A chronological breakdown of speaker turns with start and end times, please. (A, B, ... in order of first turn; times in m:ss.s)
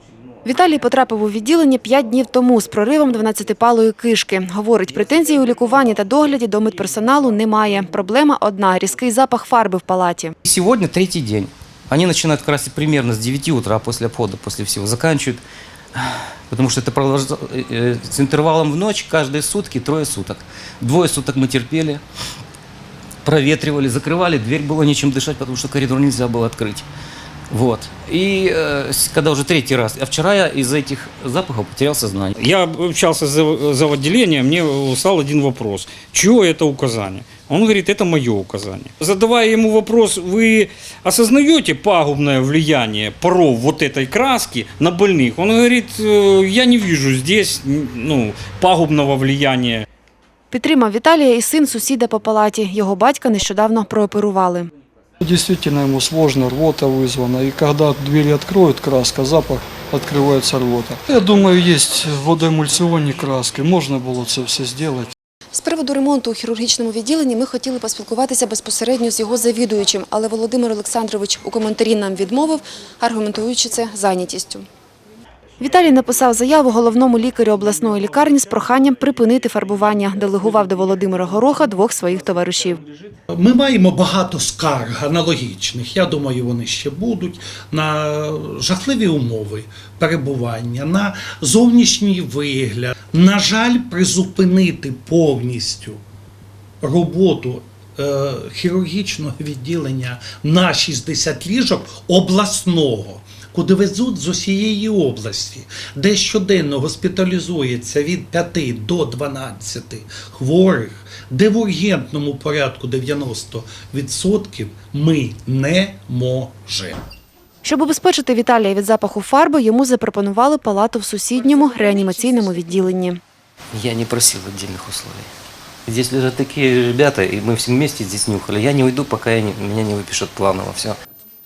0:00.4-0:10.4 A
0:10.4-0:15.4 B
0:16.0-0:22.0 B
0:23.2-0:26.9 B
0:27.5-0:32.4 B
0:32.4-0:49.9 C
0:50.5-0:54.7 A
0:55.2-1:05.1 D
1:05.5-1:14.7 A
1:15.6-1:22.8 A
1:23.3-1:36.0 E
1:36.8-1:57.0 E
1:57.6-2:03.2 A
2:03.7-2:05.3 B
2:05.9-2:11.0 B